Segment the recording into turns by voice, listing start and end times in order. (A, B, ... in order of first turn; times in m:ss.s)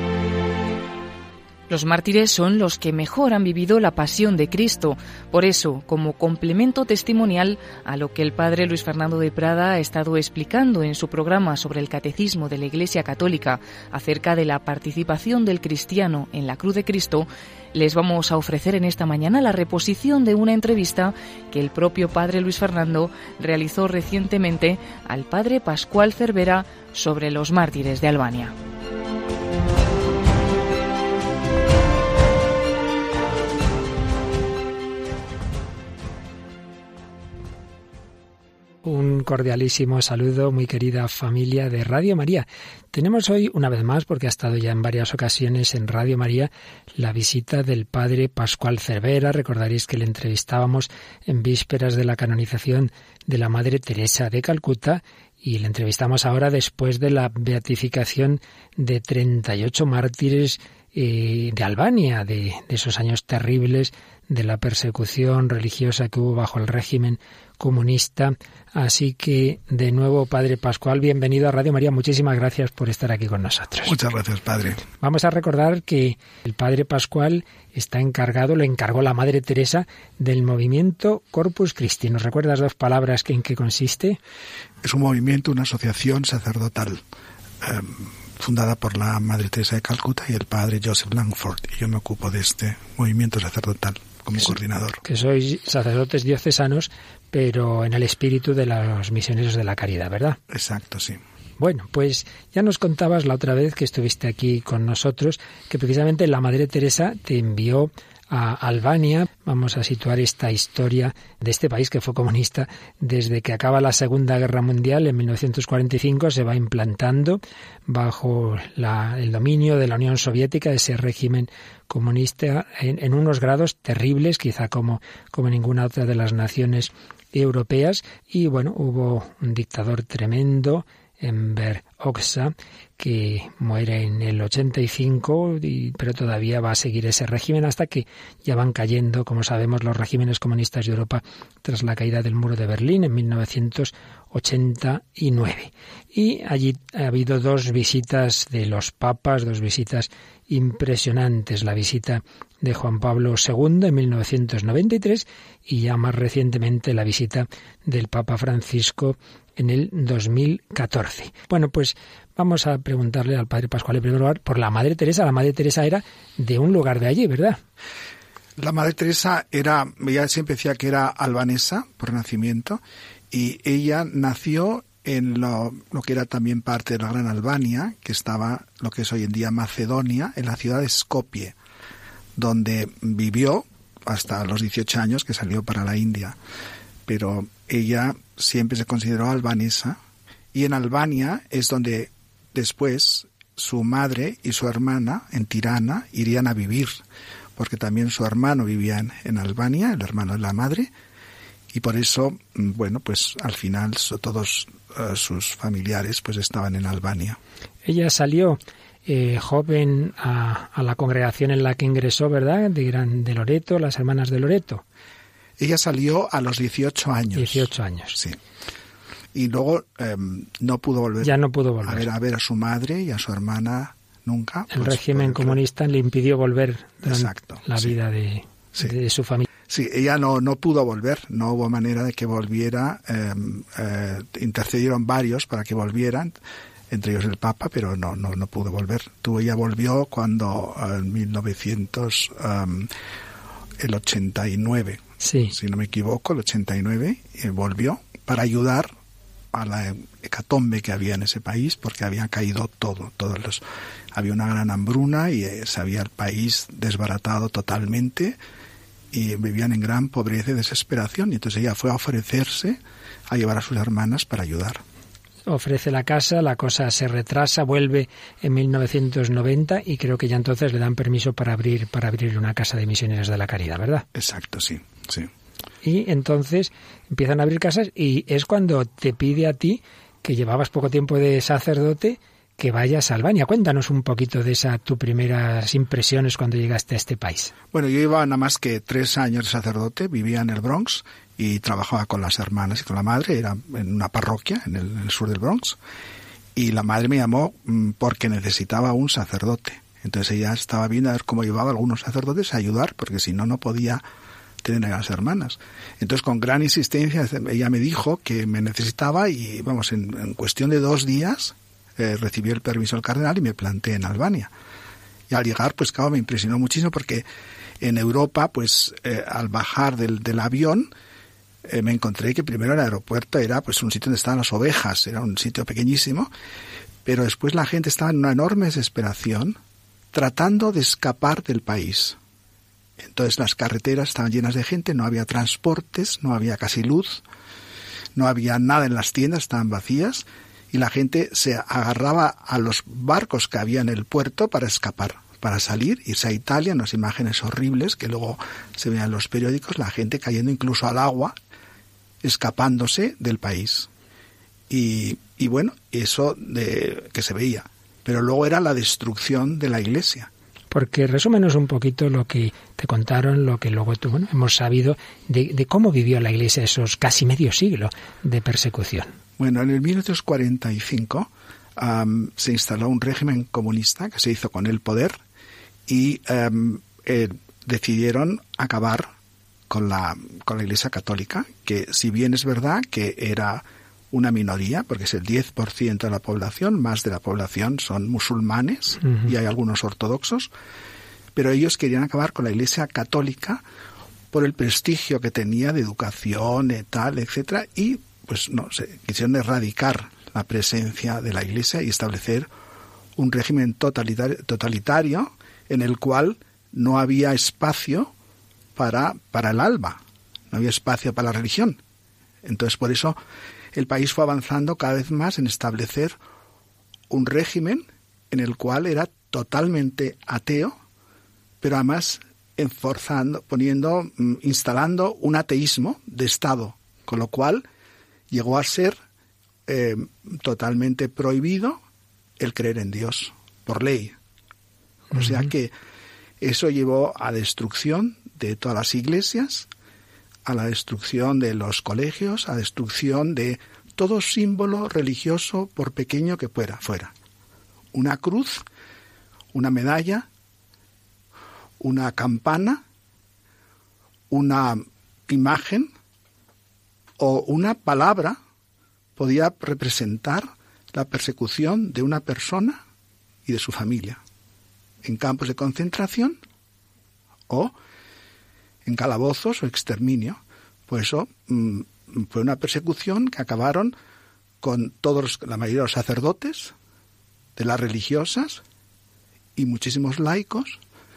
0:01.7-0:28.6 A
0:38.8-1:13.9 B
1:13.8-1:14.8 C
1:15.0-1:24.2 B
1:24.8-1:27.0 C
1:27.6-1:35.0 C
1:35.0-1:40.4 B
1:40.5-1:41.2 C
1:41.6-2:47.6 B
2:48.6-3:01.6 C
3:02.4-3:06.4 C
3:07.0-3:10.0 C
3:10.5-3:17.0 C
3:17.6-3:20.9 C
3:21.7-3:27.4 C
3:27.8-3:34.8 B
3:35.6-3:38.4 C
3:37.3-3:38.2 B
3:39.3-3:45.6 C
3:41.2-3:42.0 B
3:44.7-3:49.5 B
3:47.0-3:47.9 C
3:49.7-3:56.3 C
3:56.9-4:02.9 C
4:03.8-4:08.9 C
4:05.2-4:05.5 B
4:09.5-4:18.4 C
4:19.1-4:24.8 C
4:25.5-4:34.1 B
4:34.2-4:35.3 C
4:35.8-4:47.5 B
4:47.7-4:55.8 C
4:56.6-5:04.0 C
5:04.6-5:14.5 C
5:15.3-5:17.2 C
5:17.8-5:20.9 C
5:21.6-5:26.3 C
5:27.0-5:29.6 C
5:30.1-5:32.2 C
5:33.0-5:37.2 C
5:38.2-5:51.4 C
5:52.2-5:53.9 C
5:54.7-6:00.3 C
6:00.7-6:09.1 B
6:09.4-6:15.2 C
6:15.9-6:19.1 C
6:19.7-6:30.5 C
6:31.4-6:33.6 C
6:34.3-6:42.5 C
6:43.2-6:48.1 C
6:48.8-6:51.8 C
6:52.4-6:53.2 C
6:53.7-6:56.2 C
6:57.1-7:00.8 C
7:01.6-7:07.7 C
7:08.3-7:09.0 C
7:09.7-7:11.8 C
7:12.4-7:14.2 C
7:15.1-7:15.7 C
7:16.4-7:19.7 C
7:20.4-7:27.1 C
7:27.9-7:28.6 C
7:29.5-7:30.3 C
7:31.8-7:32.8 C
7:34.3-7:35.9 C
7:37.2-7:38.4 C
7:39.2-7:42.8 C
7:43.5-7:44.2 C
7:45.0-7:46.4 C
7:47.5-7:47.8 C
7:48.8-7:53.9 C
7:54.6-7:56.7 C
7:57.6-7:58.6 C
7:59.6-8:00.8 C